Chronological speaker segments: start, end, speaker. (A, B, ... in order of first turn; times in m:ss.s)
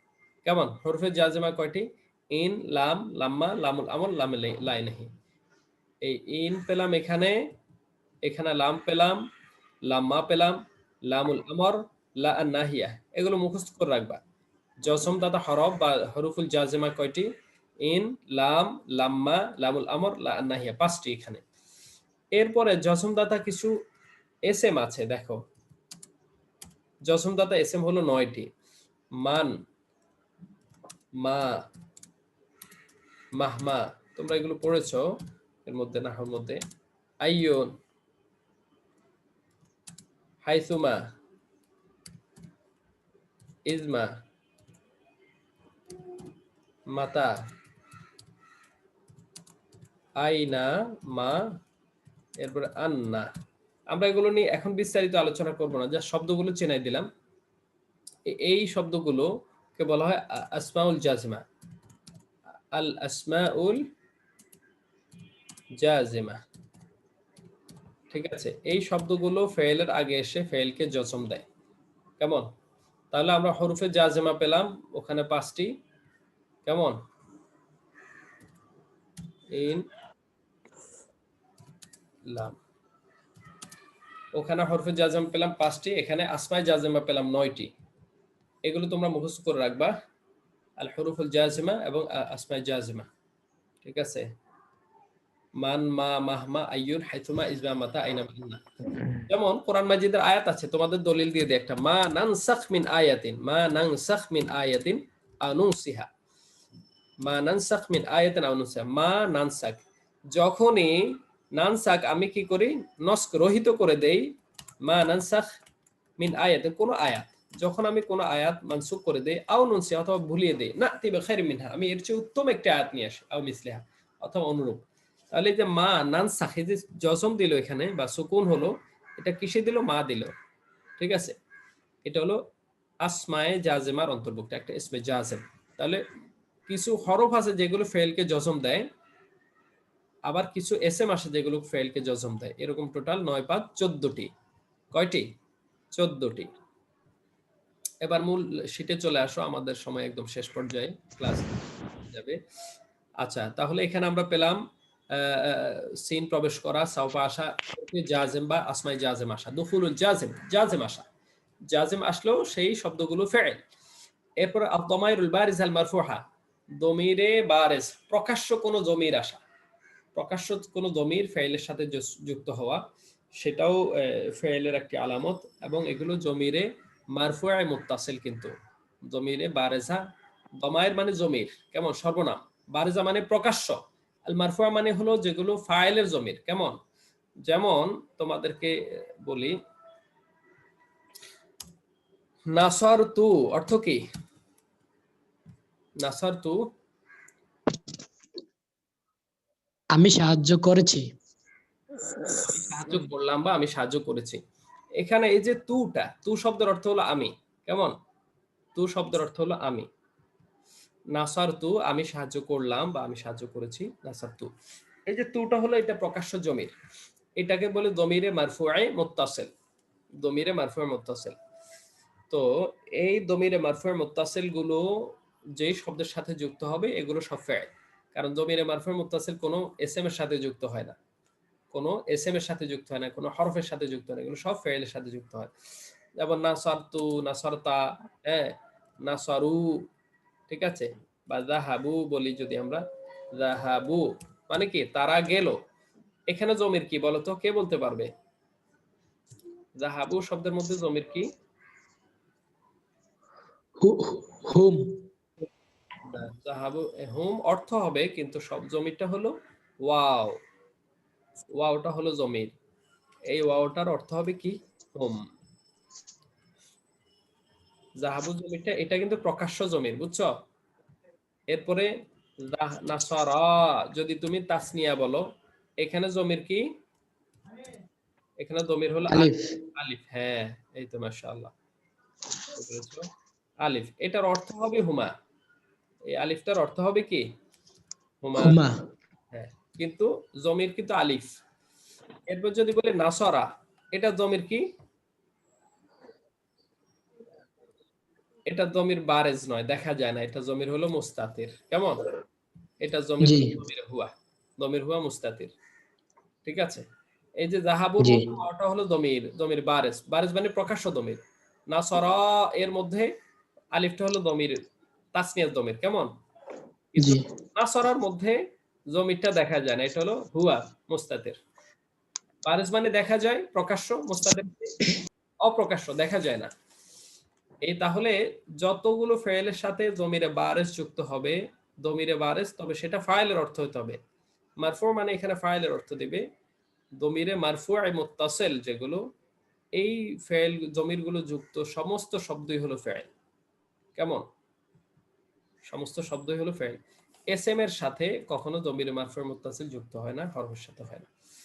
0:00.4-0:05.1 A
0:06.0-0:07.4 A
0:08.2-0:09.2 A
0:09.8-0:14.2 A
0:14.8-0:17.3 A
0:17.8-0:21.4 A
0:22.4-0:23.7 A
0:24.5-0:25.4 A
0:27.1-0:28.5 A
0:29.2-0:29.5 A
0:31.2-0:31.6 A
0:33.4-0:35.0 A
0:35.6-0:36.6 A
0:37.2-0:37.7 A
0:40.4-0:41.1 A
0:43.7-0:44.1 A
0:46.9-0:47.3 A
0:50.2-0:51.4 A
0:52.4-0:53.3 A
0:53.9-0:57.1 A
0:58.3-1:01.4 A
1:02.7-1:03.8 A
1:05.8-1:06.4 A
1:08.1-1:11.4 A
1:12.2-1:12.5 A
1:13.1-1:15.7 A
1:16.6-1:17.0 A
1:19.5-1:19.8 A
1:22.3-1:22.6 A
1:24.3-1:27.7 A
1:28.6-1:29.9 A
1:30.8-1:33.1 A
1:33.8-1:34.3 A
1:35.6-1:46.1 A
1:47.2-1:49.8 A
1:50.3-1:54.3 A
1:54.8-1:55.5 A
1:56.2-2:10.3 A
2:11.0-2:11.4 A
2:12.0-2:12.4 A
2:13.0-2:16.0 A
2:16.7-2:18.9 A
2:20.3-2:24.3 A
2:24.9-2:25.3 A
2:25.9-2:26.5 A
2:28.0-2:32.4 A
2:33.2-2:34.6 A
2:35.1-2:41.0 A
2:41.7-2:43.6 A
2:44.4-2:46.2 A
2:46.8-2:49.4 A
2:50.1-2:52.8 A
2:53.4-2:58.5 A
2:59.1-3:00.0 A
3:00.6-3:06.8 A
3:07.4-3:09.6 A
3:12.5-3:14.0 A
3:16.0-3:16.6 A
3:19.9-3:21.0 B
3:22.4-3:24.4 A
3:25.0-3:27.9 A
3:28.7-3:29.9 A
3:31.1-3:34.5 A
3:35.1-3:36.7 A
3:37.4-3:39.5 A
3:40.2-3:41.4 A
3:42.3-3:44.9 A
3:45.6-3:51.0 A
3:51.7-3:55.5 A
3:56.2-3:59.8 A
4:00.5-4:02.8 A
4:03.4-4:05.6 A
4:06.3-4:08.1 A
4:09.8-4:11.2 A
4:13.8-4:15.0 B
4:16.0-4:20.4 A
4:21.6-4:22.5 A
4:23.3-4:25.2 A
4:28.0-4:30.3 A
4:31.5-4:31.9 A
4:32.4-4:35.2 A
4:35.8-4:36.6 A
4:38.4-4:41.5 A
4:39.1-4:39.4 B
4:42.5-4:43.1 A
4:43.6-4:45.1 A
4:46.0-4:47.3 A
4:48.2-4:48.6 A
4:48.4-4:48.8 B
4:49.3-4:51.4 A
4:52.3-4:54.6 A
4:58.5-5:02.0 A
5:02.8-5:05.5 A
5:03.2-5:03.5 B
5:06.4-5:06.8 A
5:07.4-5:13.1 A
5:08.0-5:08.3 B
5:13.7-5:14.6 A
5:15.1-5:16.1 A
5:16.9-5:18.4 A
5:17.0-5:17.2 B
5:18.9-5:21.4 A
5:22.4-5:24.8 A
5:25.4-5:26.5 A
5:27.6-5:34.0 A
5:34.6-5:36.2 A
5:37.0-5:39.0 A
5:39.8-5:43.1 A
5:44.0-5:44.2 A
5:45.7-5:51.1 A